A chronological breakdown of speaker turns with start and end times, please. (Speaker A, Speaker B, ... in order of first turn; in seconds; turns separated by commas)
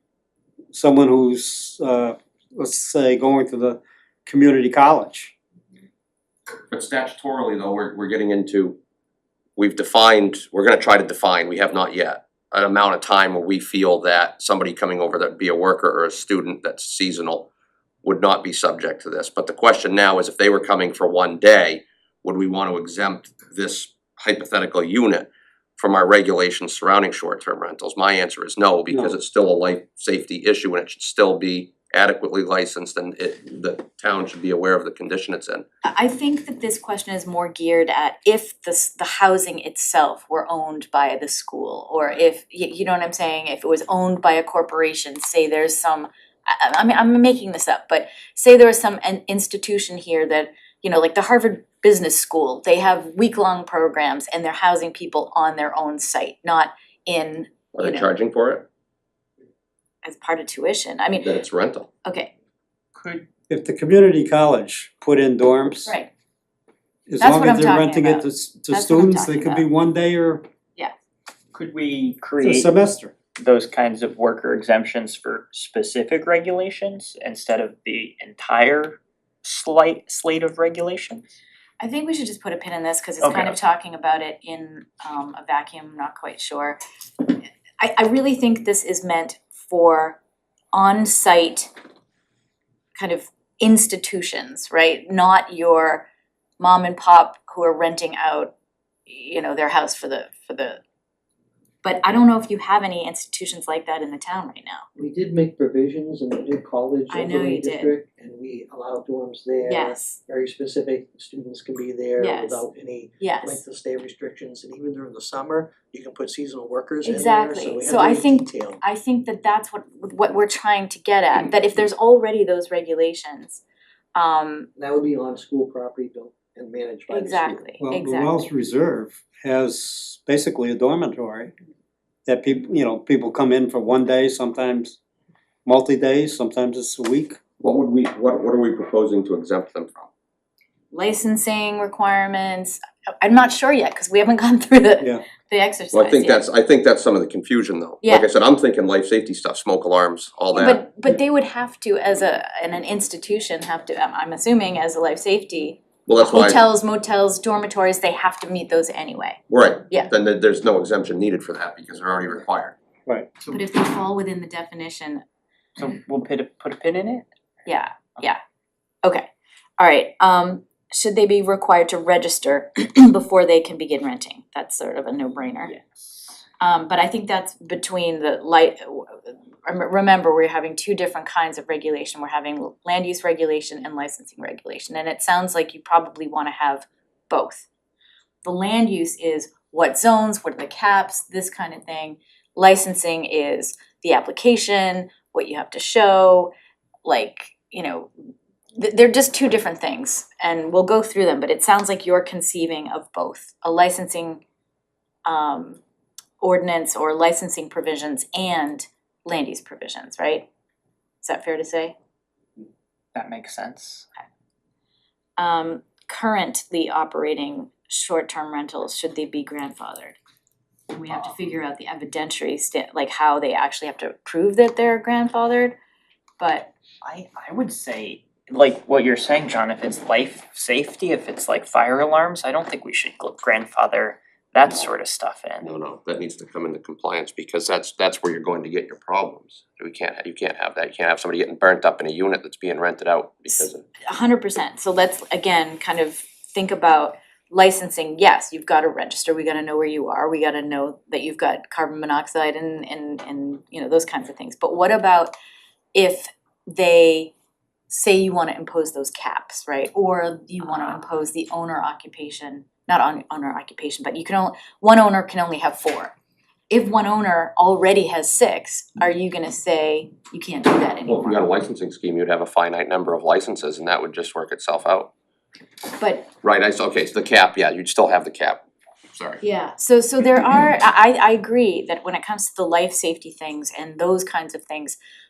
Speaker A: 0.7-5.3, Speaker B: 6.7-8.8, Speaker B: 9.6-17.5, Speaker B: 18.0-35.6, Speaker C: 35.8-58.1, Speaker B: 57.7-58.7, Speaker C: 60.0-61.3, Speaker B: 61.2-61.9, Speaker C: 62.0-62.3, Speaker D: 63.0-63.3, Speaker A: 63.5-66.0, Speaker A: 67.1-70.4, Speaker C: 67.2-69.7, Speaker D: 71.5-72.7, Speaker A: 72.4-73.1, Speaker D: 73.4-81.2, Speaker C: 81.8-86.8, Speaker D: 83.2-83.6, Speaker C: 87.8-90.2, Speaker C: 90.7-91.7, Speaker C: 93.0-96.1, Speaker C: 96.6-98.5, Speaker C: 99.1-100.8, Speaker C: 101.8-104.8, Speaker E: 105.0-118.8, Speaker C: 107.1-108.0, Speaker C: 109.6-110.2, Speaker C: 112.2-112.7, Speaker C: 113.2-113.6, Speaker C: 117.0-123.6, Speaker C: 124.2-124.7, Speaker E: 124.8-127.6, Speaker C: 127.1-128.5, Speaker A: 127.8-131.5, Speaker A: 132.3-135.0, Speaker A: 135.7-137.4, Speaker B: 137.6-140.1, Speaker C: 140.9-146.5, Speaker B: 145.9-150.8, Speaker C: 150.5-160.1, Speaker B: 156.1-156.6, Speaker B: 159.5-162.8, Speaker C: 163.5-165.2, Speaker D: 165.8-167.3, Speaker C: 167.7-168.4, Speaker C: 169.8-175.7, Speaker D: 175.7-176.4, Speaker C: 176.6-187.7, Speaker C: 188.4-196.5, Speaker C: 197.1-198.1, Speaker C: 198.8-204.4, Speaker C: 205.3-205.8, Speaker C: 206.4-210.5, Speaker C: 211.2-211.9, Speaker D: 213.2-214.1, Speaker C: 215.4-220.2, Speaker C: 220.9-225.8, Speaker C: 226.4-226.7, Speaker D: 227.1-235.7, Speaker B: 235.6-243.8, Speaker C: 243.5-255.3, Speaker C: 255.9-257.3, Speaker C: 257.9-266.1, Speaker D: 260.7-261.0, Speaker C: 266.7-271.5, Speaker B: 271.1-275.1, Speaker C: 276.0-276.3, Speaker B: 276.4-279.4, Speaker C: 279.4-285.0